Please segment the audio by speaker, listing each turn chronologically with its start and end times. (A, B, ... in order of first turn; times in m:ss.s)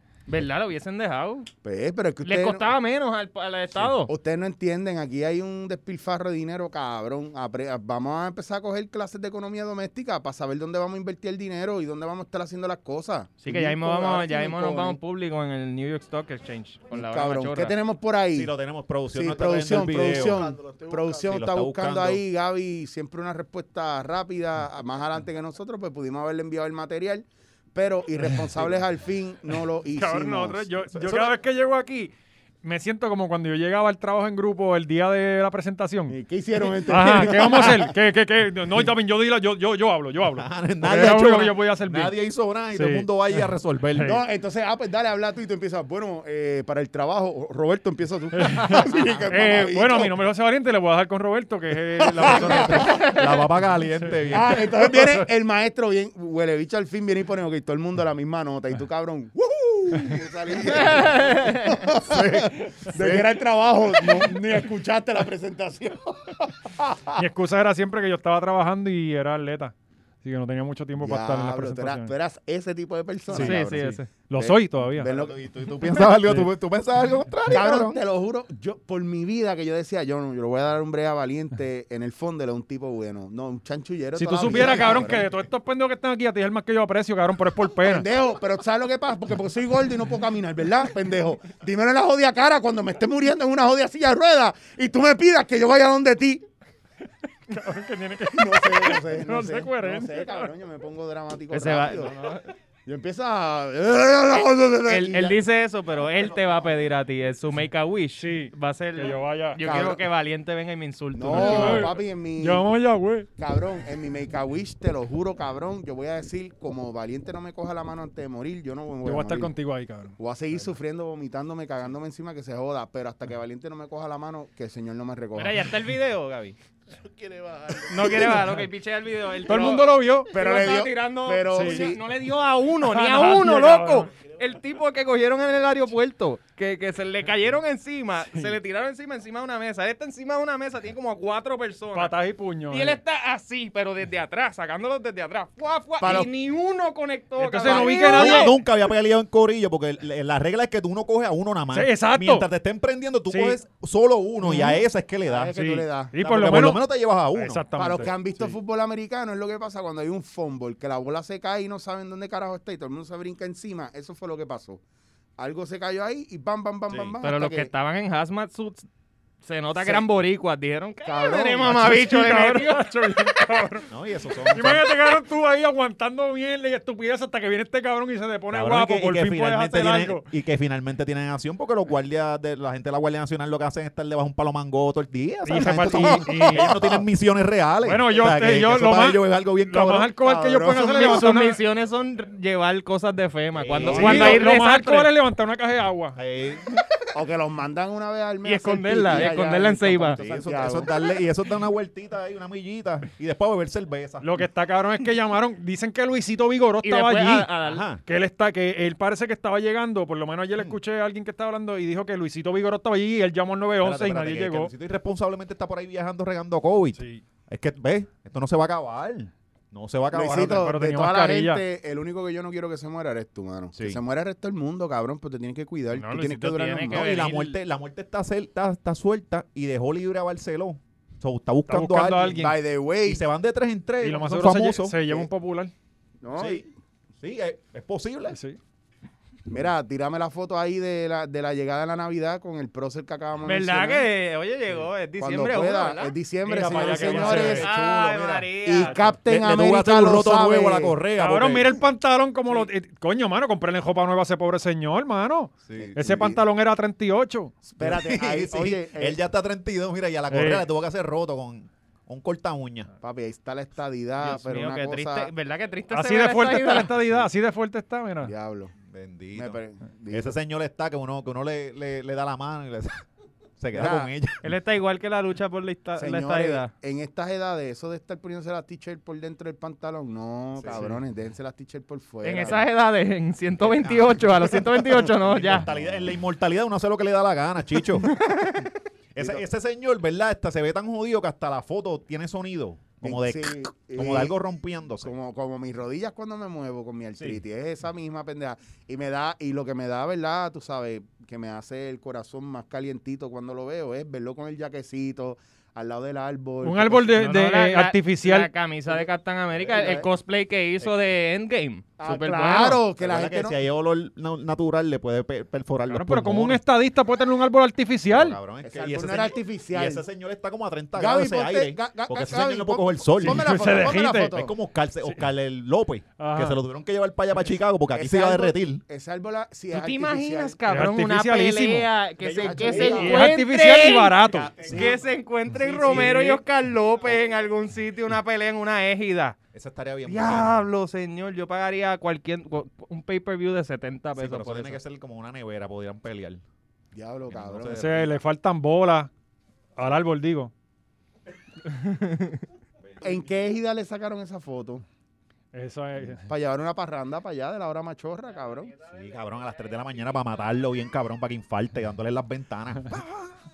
0:00.3-0:01.5 A
0:01.6-0:02.7 B
0:02.2-0:04.1 A
0:04.1-0:15.0 B
0:13.4-0:17.7 A
0:16.9-0:18.5 B
0:18.3-0:20.4 C
0:19.1-0:30.7 B
0:20.0-0:21.4 D
0:21.3-0:22.2 C
0:29.9-0:32.1 E
0:30.9-0:31.3 C
0:32.6-0:36.2 E
0:36.1-0:37.9 B
0:36.7-0:42.1 E
0:40.3-0:44.2 C
0:42.7-0:43.1 E
0:43.9-0:44.2 E
0:44.0-0:50.1 B
0:48.3-0:53.1 E
0:52.0-0:53.0 B
0:52.5-0:54.9 C
0:52.8-0:53.2 A
0:53.7-0:55.2 E
0:54.3-1:07.2 B
1:00.7-1:01.8 A
1:02.1-1:03.3 C
1:07.2-1:12.1 E
1:11.0-1:15.4 B
1:13.3-1:14.1 A
1:13.3-1:15.1 E
1:15.0-1:18.0 C
1:16.2-1:16.5 E
1:17.5-1:25.2 B
1:24.2-1:28.0 E
1:27.8-1:36.4 B
1:37.5-1:40.5 E
1:38.3-1:42.1 B
1:41.5-1:42.5 A
1:42.8-1:45.4 B
1:44.8-1:51.9 A
1:48.2-1:49.6 E
1:49.6-1:50.0 B
1:51.1-1:52.7 B
1:51.3-1:53.3 E
1:53.4-1:59.5 B
1:59.0-2:00.1 E
2:00.2-2:05.7 B
2:05.3-2:06.6 A
2:06.9-2:08.3 D
2:07.9-2:22.1 A
2:09.4-2:10.3 E
2:10.3-2:12.0 B
2:11.5-2:11.9 E
2:12.8-2:14.1 E
2:21.9-2:23.0 E
2:22.7-2:28.6 A
2:26.0-2:26.3 B
2:27.4-2:28.6 E
2:27.6-2:28.4 B
2:28.0-2:35.6 C
2:31.7-2:32.5 E
2:33.3-2:33.6 E
2:34.4-2:36.1 B
2:35.5-2:36.8 E
2:36.2-2:38.1 C
2:37.3-2:38.1 E
2:37.8-2:44.8 B
2:45.4-2:47.7 B
2:46.9-2:47.2 C
2:47.2-2:48.9 A
2:49.4-2:52.9 A
2:51.0-2:51.9 B
2:51.7-2:53.9 E
2:53.9-2:54.9 C
2:54.4-3:00.2 E
2:58.5-3:10.1 C
3:05.4-3:06.8 E
3:05.9-3:06.8 B
3:07.8-3:11.6 E
3:10.2-3:11.2 B
3:10.7-3:15.1 A
3:13.5-3:14.4 C
3:13.8-3:14.4 B
3:13.8-3:16.2 E
3:16.1-3:16.7 C
3:17.1-3:20.9 B
3:18.4-3:20.2 A
3:20.1-3:24.3 C
3:24.2-3:27.5 E
3:26.8-3:27.8 A
3:27.6-3:28.0 C
3:28.0-3:34.7 E
3:33.8-3:40.7 C
3:37.0-3:37.2 E
3:40.1-3:47.2 B
3:40.5-3:41.6 E
3:43.7-3:44.0 C
3:45.9-3:47.5 A
3:46.9-3:52.4 C
3:51.7-3:52.6 E
3:52.4-3:53.2 B
3:53.0-3:55.0 C
3:54.0-3:55.7 E
3:56.2-3:56.7 B
3:56.3-3:56.6 C
3:57.2-3:58.4 C
3:58.3-3:58.6 E
3:59.5-4:04.1 B
4:03.4-4:06.1 A
4:05.2-4:11.0 B
4:06.5-4:07.7 E
4:06.7-4:09.0 A
4:07.0-4:07.6 C
4:09.2-4:11.8 C
4:11.2-4:17.5 E
4:15.7-4:15.9 C
4:15.8-4:16.4 B
4:17.7-4:19.2 B
4:17.8-4:22.9 C
4:20.3-4:20.6 E
4:23.0-4:25.3 B
4:24.2-4:26.9 A
4:25.9-4:28.3 E
4:28.2-4:28.7 B
4:28.8-4:29.6 C
4:29.3-4:30.3 B
4:30.1-4:33.0 C
4:33.6-4:34.4 C
4:33.7-4:34.1 B
4:34.4-4:36.7 A
4:36.0-4:42.7 B
4:40.6-4:41.0 C
4:42.2-4:45.7 A
4:43.6-4:48.1 C
4:48.0-4:48.7 A
4:49.1-4:55.1 C
4:49.2-4:49.4 B
4:53.0-4:54.3 B
4:55.0-5:07.1 B
5:06.6-5:08.5 E
5:07.1-5:12.8 A
5:09.6-5:10.1 B
5:12.0-5:13.6 B
5:13.0-5:16.6 C
5:15.9-5:18.4 E
5:18.1-5:28.8 C
5:18.6-5:20.0 B
5:20.9-5:24.5 B
5:23.2-5:24.3 E
5:26.2-5:26.6 E
5:27.9-5:30.6 B
5:29.7-5:39.4 A
5:30.7-5:31.9 E
5:32.2-5:33.3 C
5:32.4-5:33.3 B
5:32.8-5:34.5 E
5:34.3-5:36.4 C
5:34.6-5:35.0 B
5:35.6-5:36.3 B
5:39.5-5:40.6 C
5:40.0-5:44.8 A
5:44.2-5:46.4 C
5:46.9-5:47.8 B
5:47.3-5:48.2 C
5:47.7-5:49.1 E
5:49.8-5:50.5 E
5:51.7-5:52.4 A
5:52.8-5:53.1 C
5:53.0-5:54.8 B
5:55.5-5:56.2 E
5:56.3-5:58.7 B
5:58.8-6:03.3 C